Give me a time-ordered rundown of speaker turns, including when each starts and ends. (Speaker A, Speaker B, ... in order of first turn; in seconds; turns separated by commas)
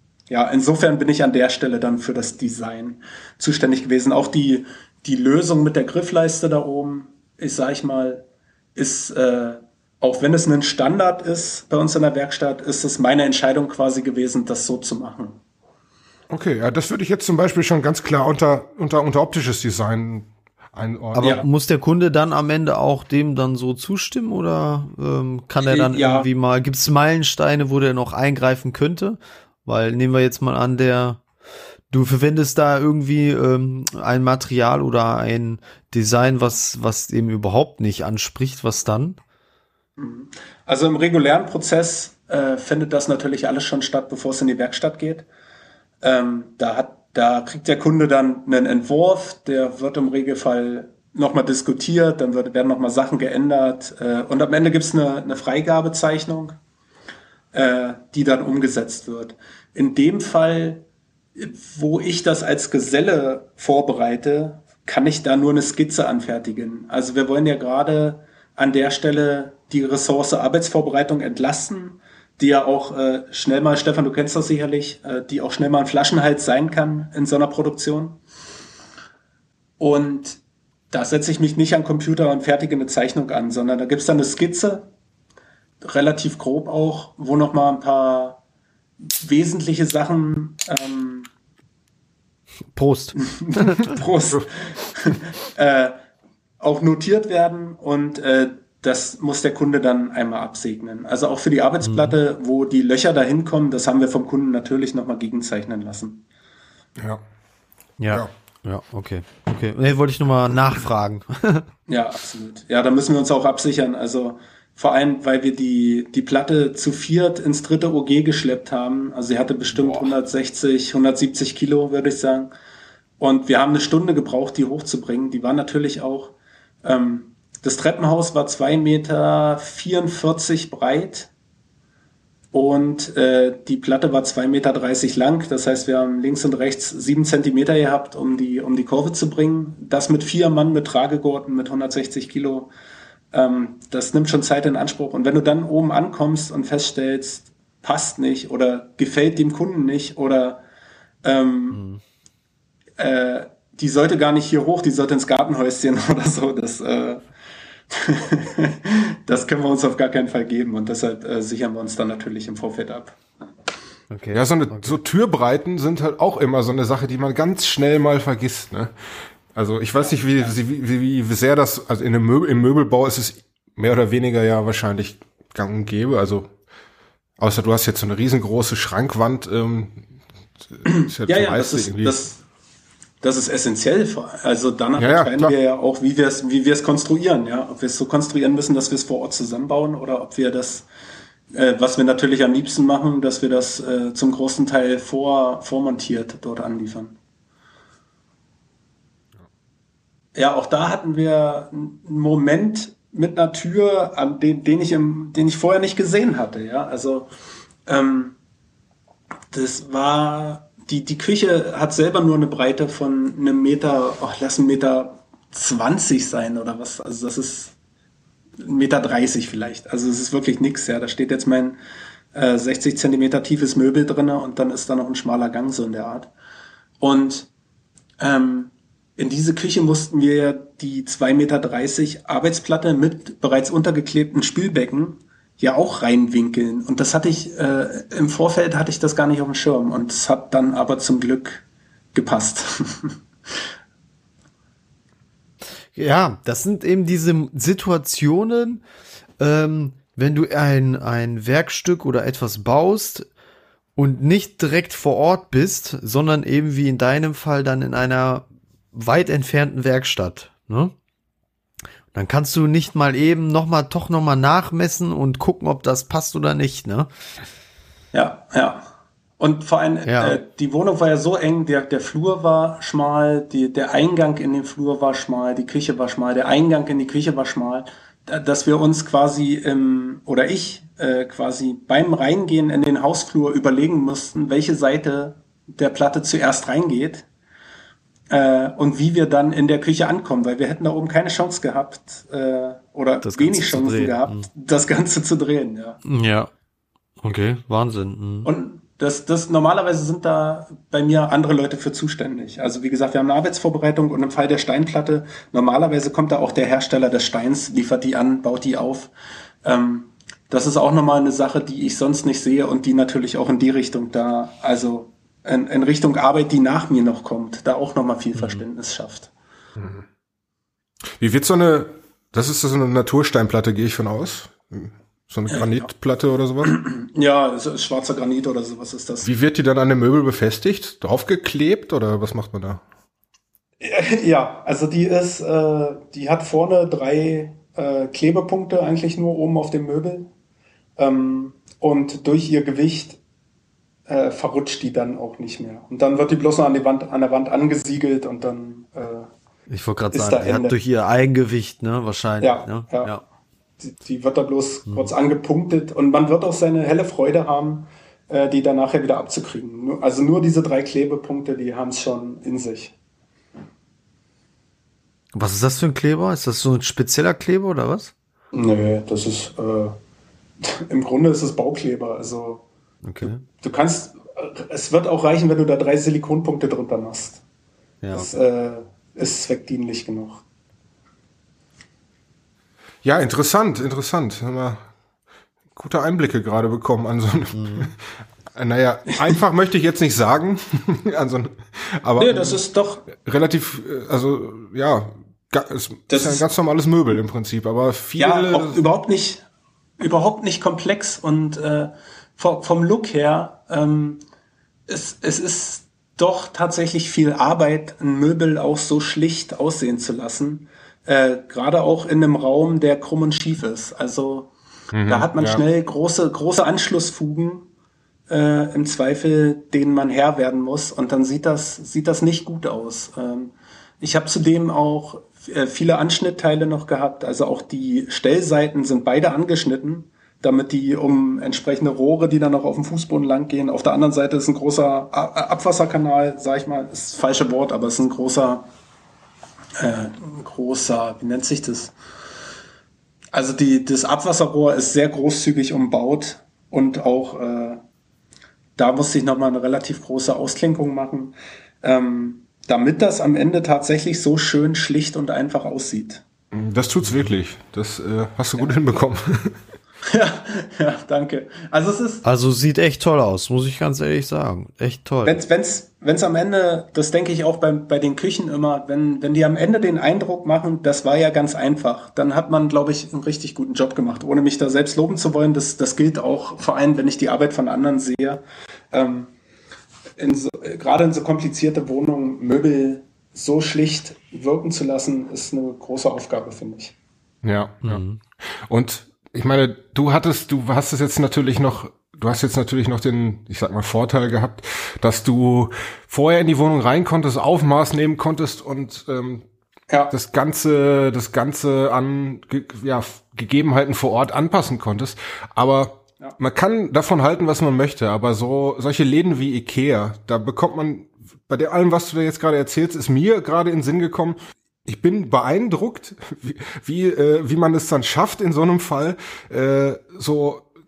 Speaker A: 0.3-15.4, Speaker B: 16.3-21.4, Speaker C: 21.1-31.2, Speaker A: 21.2-21.5, Speaker A: 25.6-26.3, Speaker C: 31.9-39.2, Speaker A: 40.0-45.3, Speaker A: 46.0-56.6, Speaker A: 57.5-60.9, Speaker A: 61.4-78.2, Speaker A: 79.8-80.4, Speaker A: 80.9-84.9, Speaker A: 85.8-88.4, Speaker A: 89.1-91.3, Speaker C: 92.8-93.9, Speaker A: 93.2-96.0, Speaker A: 96.6-106.2, Speaker C: 101.8-102.2, Speaker C: 108.0-111.7, Speaker A: 111.9-122.5, Speaker C: 119.8-120.1, Speaker A: 123.2-131.3, Speaker A: 132.5-142.7, Speaker A: 143.3-150.6, Speaker A: 151.2-151.8, Speaker C: 151.7-152.0, Speaker A: 153.0-157.2, Speaker A: 157.9-163.2, Speaker C: 164.1-165.0, Speaker B: 164.3-168.9, Speaker B: 169.6-176.5, Speaker B: 177.4-180.0, Speaker B: 180.7-182.2, Speaker A: 180.9-182.4, Speaker A: 183.2-190.9, Speaker B: 185.0-185.5, Speaker A: 191.5-197.2, Speaker A: 200.3-207.3, Speaker A: 207.9-208.4, Speaker A: 209.5-217.7, Speaker A: 218.6-221.8, Speaker A: 222.3-226.3, Speaker A: 227.0-227.5, Speaker A: 228.2-243.2, Speaker C: 246.0-248.8, Speaker C: 249.4-253.3, Speaker C: 254.0-260.9, Speaker C: 262.1-267.1, Speaker A: 268.1-268.9, Speaker A: 269.4-287.3, Speaker C: 270.1-270.4, Speaker A: 288.3-296.0, Speaker C: 293.2-294.5, Speaker C: 296.1-296.5, Speaker C: 297.2-298.5, Speaker A: 298.4-309.1, Speaker A: 309.6-319.3, Speaker B: 319.8-320.1, Speaker B: 321.2-326.8, Speaker A: 325.5-325.9, Speaker A: 326.6-329.3, Speaker B: 329.2-332.8, Speaker A: 333.8-340.3, Speaker A: 341.0-343.2, Speaker A: 344.1-349.3, Speaker C: 349.7-353.2, Speaker A: 350.1-350.8, Speaker A: 352.4-353.1, Speaker A: 353.8-362.9, Speaker C: 354.9-355.1, Speaker C: 365.3-368.1, Speaker A: 368.5-370.0, Speaker A: 370.6-372.6, Speaker C: 373.0-373.4, Speaker A: 373.6-377.4, Speaker C: 378.0-378.3, Speaker A: 378.1-380.4, Speaker B: 383.0-384.8, Speaker B: 385.8-388.0, Speaker C: 387.5-387.9, Speaker B: 388.6-398.8, Speaker A: 392.2-393.1, Speaker A: 396.1-396.5, Speaker A: 398.2-399.4, Speaker A: 400.0-404.2, Speaker A: 404.9-414.5, Speaker B: 414.9-415.6, Speaker A: 415.1-417.7, Speaker A: 418.3-438.7, Speaker A: 439.8-441.9, Speaker A: 443.3-447.8, Speaker A: 448.8-456.2, Speaker B: 456.5-459.6, Speaker A: 460.1-462.2, Speaker C: 462.2-465.4, Speaker A: 465.2-479.3, Speaker A: 480.2-486.9, Speaker B: 487.4-488.0, Speaker C: 487.9-488.2, Speaker B: 488.7-499.4, Speaker B: 500.1-520.7